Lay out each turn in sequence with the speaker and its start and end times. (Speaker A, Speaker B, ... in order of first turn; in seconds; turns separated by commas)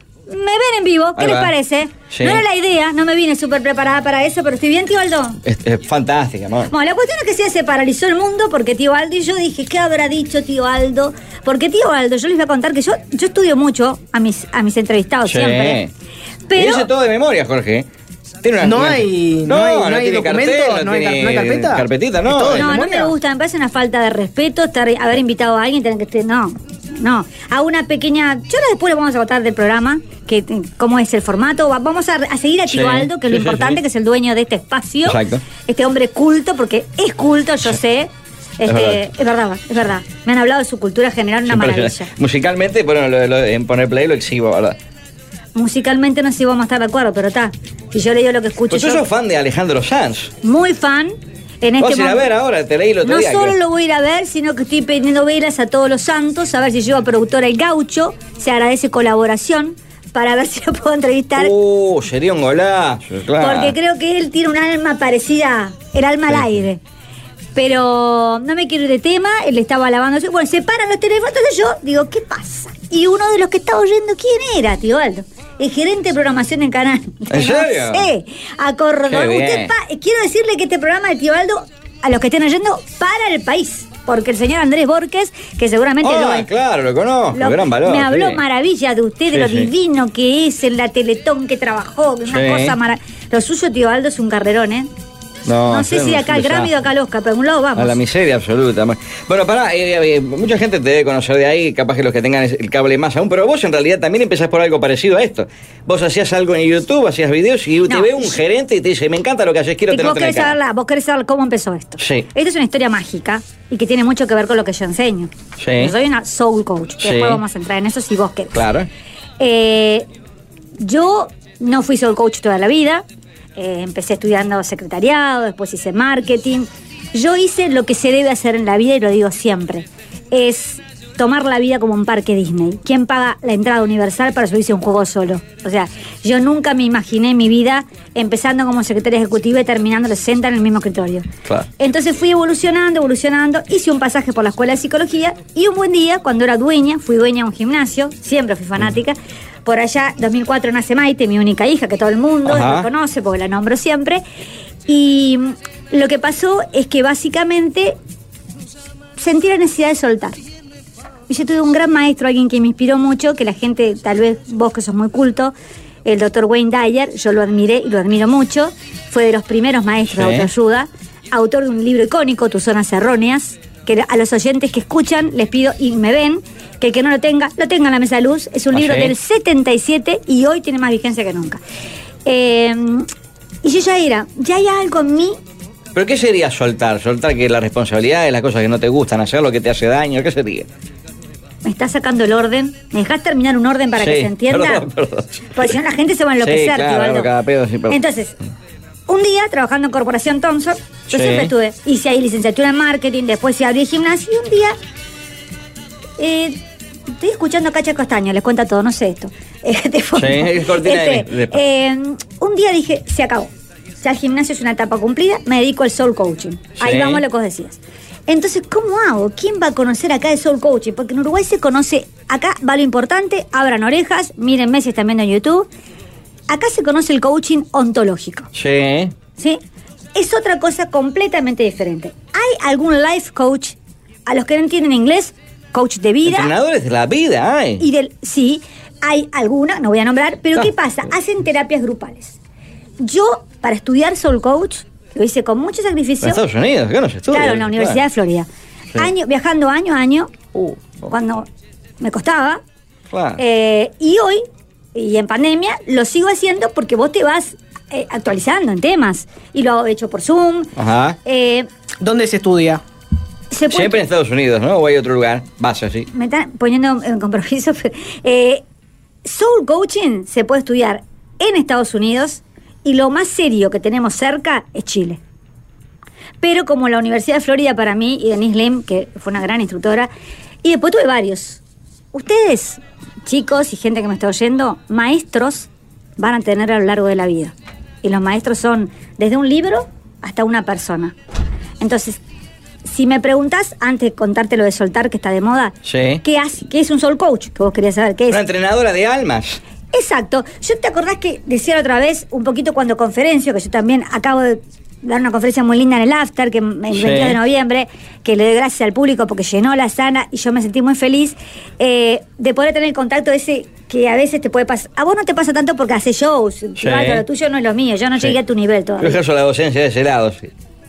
Speaker A: 0.3-5.4, Speaker B: 1.2-1.5, Speaker B: 2.1-2.4, Speaker B: 5.4-6.7, Speaker A: 6.7-15.8, Speaker B: 15.3-15.9, Speaker A: 16.5-16.9, Speaker B: 16.6-17.9, Speaker B: 18.4-22.7, Speaker C: 18.6-23.1, Speaker A: 22.5-42.1, Speaker B: 32.7-33.8, Speaker B: 35.0-35.5, Speaker B: 38.7-39.0, Speaker B: 41.5-44.8, Speaker A: 45.5-49.0, Speaker B: 48.7-50.3, Speaker A: 50.4-52.3, Speaker B: 51.8-53.5, Speaker A: 53.0-61.5, Speaker B: 61.4-63.7, Speaker A: 63.4-66.8, Speaker A: 67.5-86.5, Speaker B: 77.3-78.1, Speaker B: 79.1-79.7, Speaker B: 86.0-88.4, Speaker A: 87.3-94.9, Speaker B: 89.3-89.7, Speaker B: 92.3-92.7, Speaker B: 95.5-96.7, Speaker A: 95.7-98.0, Speaker B: 97.8-110.5, Speaker A: 107.8-108.4, Speaker A: 109.9-118.6, Speaker B: 112.0-112.3, Speaker B: 115.6-115.9, Speaker B: 117.0-117.4, Speaker B: 118.5-118.9, Speaker A: 119.4-120.0, Speaker A: 120.8-123.0, Speaker A: 123.5-141.3, Speaker A: 141.8-154.2, Speaker B: 152.4-152.9, Speaker A: 154.9-158.0, Speaker A: 159.2-160.4, Speaker A: 161.3-181.6, Speaker B: 170.1-170.5, Speaker B: 178.7-179.1, Speaker A: 182.3-183.1, Speaker A: 183.6-185.4, Speaker B: 185.9-190.7, Speaker A: 191.6-194.8, Speaker B: 193.9-195.7, Speaker A: 195.5-197.3, Speaker B: 196.4-198.0, Speaker A: 197.9-198.3, Speaker A: 199.1-204.8, Speaker B: 201.1-201.5, Speaker A: 206.2-206.6, Speaker A: 207.1-213.5, Speaker B: 210.2-211.6, Speaker A: 214.0-225.7, Speaker B: 216.8-217.2, Speaker A: 226.5-228.5, Speaker B: 228.5-229.1, Speaker A: 230.1-236.5, Speaker B: 236.2-237.8, Speaker A: 237.8-242.3, Speaker A: 243.0-246.4, Speaker B: 246.2-248.0, Speaker A: 247.3-250.4, Speaker B: 250.5-251.1, Speaker A: 251.1-251.5, Speaker A: 252.0-252.6, Speaker B: 253.1-253.4, Speaker A: 253.4-254.4, Speaker A: 254.9-260.7, Speaker B: 260.8-261.2, Speaker A: 261.2-261.7, Speaker C: 262.0-262.8, Speaker A: 263.5-264.0, Speaker B: 263.7-266.1, Speaker A: 266.1-268.6, Speaker A: 269.2-275.2, Speaker A: 276.4-280.1, Speaker A: 280.6-281.6, Speaker A: 282.1-291.1, Speaker A: 291.8-292.2, Speaker A: 292.8-298.4, Speaker B: 295.8-296.2, Speaker B: 298.3-299.6, Speaker A: 299.9-319.2, Speaker B: 306.9-307.4, Speaker B: 316.8-317.2, Speaker B: 319.0-320.5